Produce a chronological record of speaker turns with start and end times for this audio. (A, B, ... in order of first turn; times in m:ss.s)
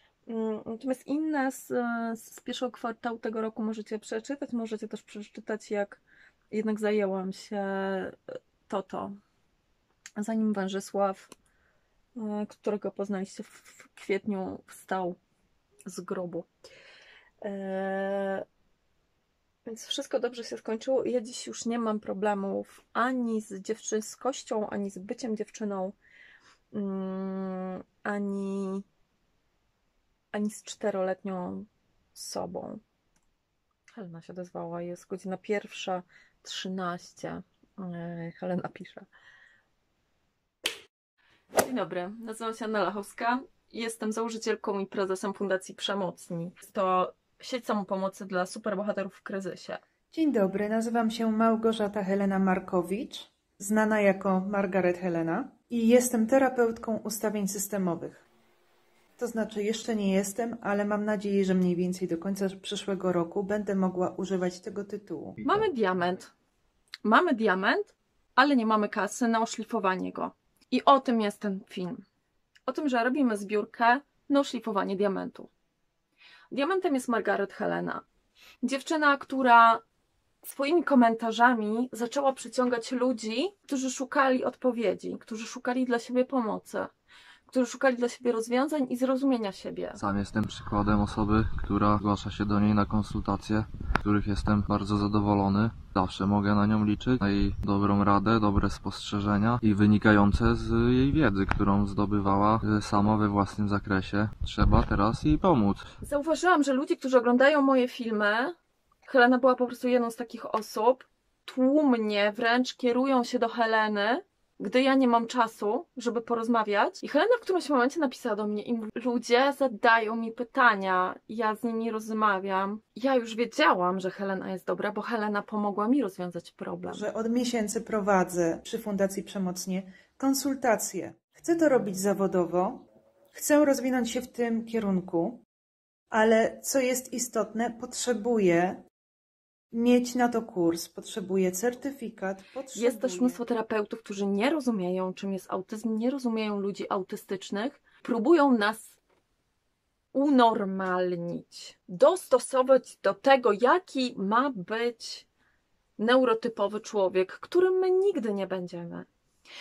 0:00.3-0:09.2 A
0:10.2-0:11.3 A
0:12.2-0:15.2 A
0:15.9-0:16.5 A
0:17.4-0:18.4 A
0:19.7-0:26.0 A
0:26.7-0:28.8 A
0:30.3-0:32.8 A
0:34.0-0:39.1 A
0:41.6-0:49.8 A
0:50.1-0:58.3 B
0:59.2-1:05.4 B
1:05.4-1:06.3 A
1:07.0-1:12.0 A
1:12.7-1:15.5 A
1:16.5-1:18.0 A
1:18.6-1:19.8 A
1:20.4-1:26.9 A
1:27.5-1:30.0 A
1:30.0-1:45.9 C
1:46.0-1:48.6 A
1:49.1-2:07.1 A
2:06.9-2:15.4 B
2:16.1-2:18.9 B
2:19.7-2:23.4 B
2:22.8-2:29.0 A
2:30.1-2:35.3 A
2:36.0-2:39.1 A